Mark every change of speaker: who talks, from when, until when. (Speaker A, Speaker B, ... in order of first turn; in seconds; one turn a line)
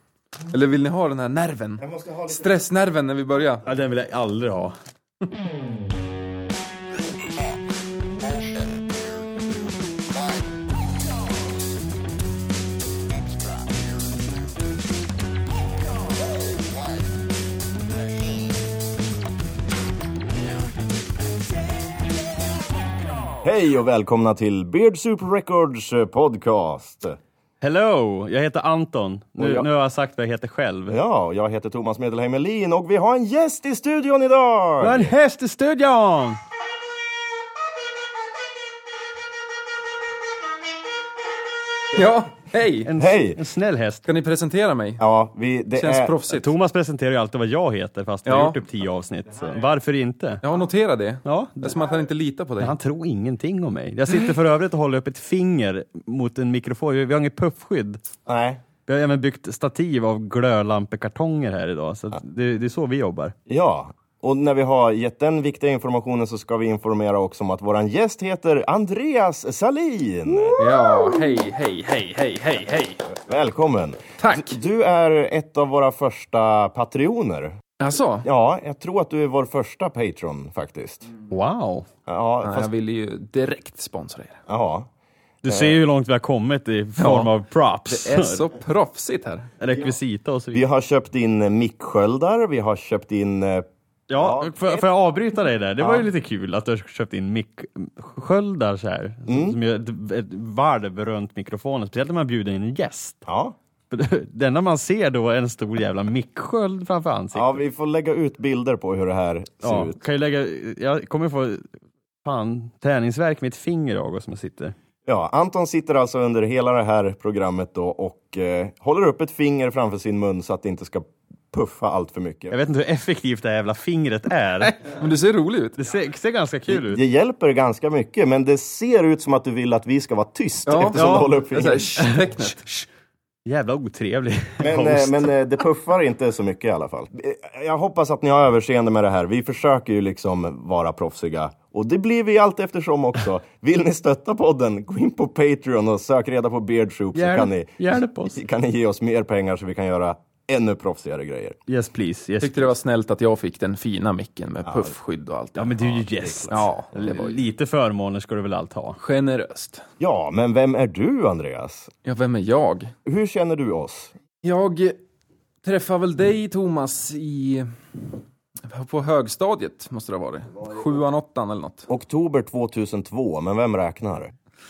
Speaker A: 0.5-3.6
Speaker B: 1.8-2.6
Speaker C: 3.6-4.8
Speaker B: 23.4-27.2
Speaker C: 27.6-31.0
Speaker B: 29.4-29.7
Speaker B: 30.9-35.1
Speaker C: 34.8-36.4
Speaker A: 41.9-42.9
Speaker C: 42.8-44.0
Speaker B: 42.9-43.4
Speaker A: 44.0-45.0
Speaker B: 45.0-46.1
Speaker A: 45.7-46.5
Speaker C: 46.3-50.4
Speaker A: 48.2-48.6
Speaker A: 50.4-52.7
Speaker C: 51.2-51.9
Speaker C: 52.6-58.0
Speaker B: 58.2-58.6
Speaker C: 58.9-63.3
Speaker B: 63.5-70.6
Speaker A: 70.6-73.0
Speaker B: 73.1-77.5
Speaker A: 74.2-74.6
Speaker A: 77.8-78.3
Speaker B: 78.2-81.1
Speaker C: 81.3-81.9
Speaker B: 82.1-82.7
Speaker A: 82.4-84.4
Speaker B: 84.5-84.9
Speaker C: 85.4-88.4
Speaker B: 85.4-85.8
Speaker A: 87.0-87.3
Speaker A: 87.9-89.5
Speaker C: 89.6-90.6
Speaker B: 90.5-94.9
Speaker C: 94.1-103.2
Speaker B: 95.8-96.1
Speaker B: 99.3-99.6
Speaker B: 103.2-103.5
Speaker C: 103.9-107.6
Speaker B: 107.3-110.0
Speaker C: 109.6-111.7
Speaker C: 112.2-114.7
Speaker B: 115.0-122.5
Speaker C: 122.5-124.8
Speaker A: 124.8-125.8
Speaker C: 125.8-127.0
Speaker B: 126.7-132.0
Speaker A: 130.7-132.6
Speaker C: 130.9-132.8
Speaker C: 133.4-135.3
Speaker B: 134.6-151.6
Speaker C: 147.1-148.3
Speaker C: 151.7-152.7
Speaker A: 152.4-157.4
Speaker B: 154.7-154.9
Speaker C: 155.6-159.0
Speaker A: 159.0-159.8
Speaker B: 160.0-161.9
Speaker A: 162.1-162.9
Speaker B: 163.0-164.1
Speaker A: 164.4-165.0
Speaker A: 165.6-167.7
Speaker A: 168.7-171.9
Speaker B: 171.9-174.3